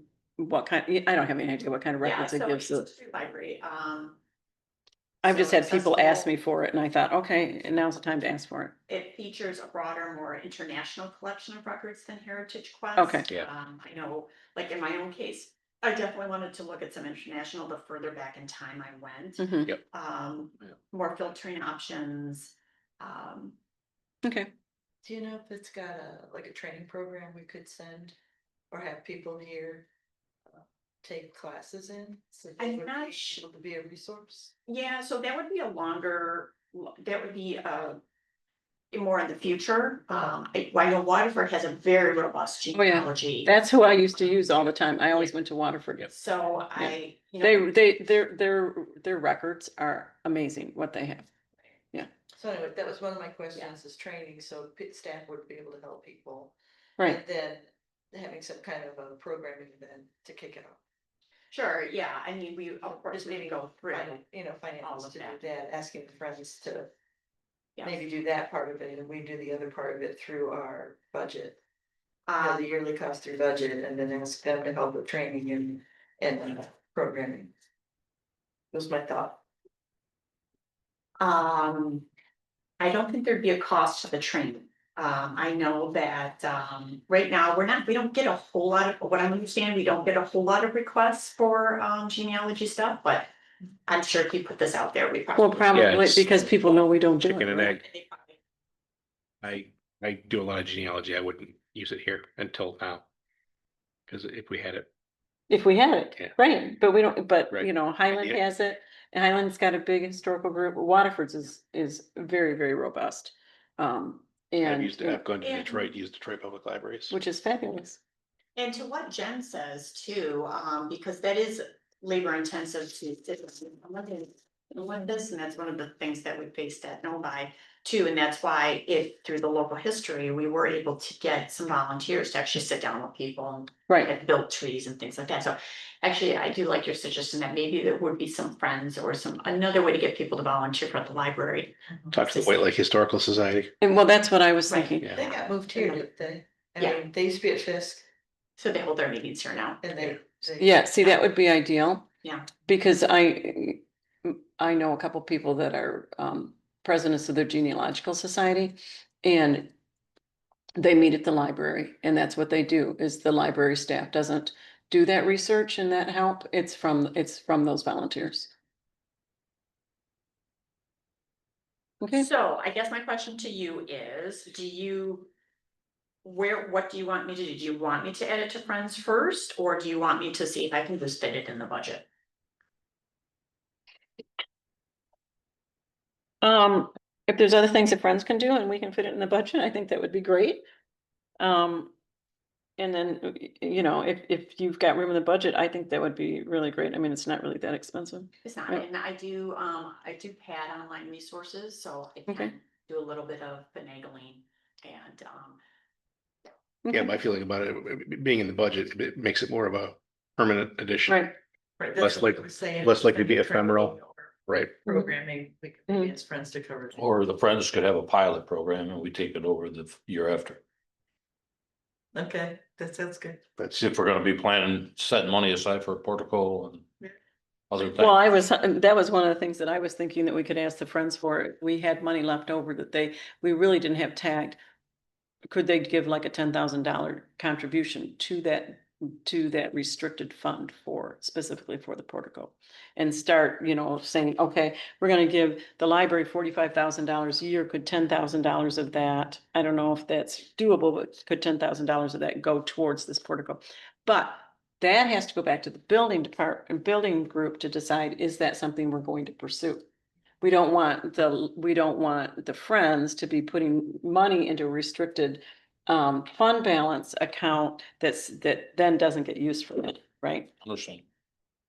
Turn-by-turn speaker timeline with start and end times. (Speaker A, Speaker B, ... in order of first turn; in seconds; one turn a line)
Speaker A: 0.4-2.9
Speaker B: 2.0-4.2
Speaker A: 5.2-8.8
Speaker B: 5.2-6.3
Speaker B: 8.9-23.6
Speaker A: 13.0-13.3
Speaker A: 19.4-19.7
Speaker A: 24.2-24.5
Speaker C: 25.0-28.1
Speaker C: 28.7-29.9
Speaker C: 30.5-34.5
Speaker B: 32.6-33.4
Speaker B: 34.7-38.0
Speaker B: 38.9-43.5
Speaker A: 42.7-46.1
Speaker B: 46.1-47.7
Speaker A: 46.8-51.3
Speaker C: 52.3-60.8
Speaker B: 61.5-64.2
Speaker C: 63.1-66.9
Speaker B: 64.8-65.4
Speaker C: 67.8-71.6
Speaker B: 72.3-72.7
Speaker C: 72.4-77.5
Speaker C: 78.7-79.4
Speaker B: 81.2-82.0
Speaker B: 82.8-93.3
Speaker B: 93.9-95.9
Speaker A: 95.3-97.8
Speaker D: 95.7-96.5
Speaker D: 97.2-97.8
Speaker B: 97.6-98.4
Speaker D: 99.4-103.0
Speaker D: 104.1-104.9
Speaker A: 105.5-115.2
Speaker D: 107.5-108.4
Speaker D: 114.6-117.1
Speaker B: 115.4-115.9
Speaker A: 117.1-118.0
Speaker B: 118.5-142.6
Speaker D: 142.1-143.7
Speaker A: 143.8-145.1
Speaker B: 144.7-146.0
Speaker C: 145.1-148.0
Speaker B: 148.6-149.8
Speaker C: 149.8-150.8
Speaker A: 150.5-152.1
Speaker A: 152.7-159.7
Speaker A: 160.8-168.5
Speaker A: 172.0-172.3
Speaker B: 172.1-175.3
Speaker B: 176.2-182.0
Speaker A: 186.4-190.6
Speaker A: 191.4-191.9
Speaker A: 192.8-198.8
Speaker B: 198.4-205.6
Speaker A: 206.8-207.1
Speaker D: 206.9-211.2
Speaker A: 211.1-211.3
Speaker C: 211.8-217.0
Speaker D: 212.0-213.9
Speaker D: 214.5-214.8
Speaker E: 217.0-220.6
Speaker C: 222.1-223.4
Speaker E: 223.8-226.8
Speaker E: 227.7-228.0
Speaker A: 227.9-234.6
Speaker A: 235.5-259.8
Speaker A: 260.4-270.5
Speaker E: 270.6-271.0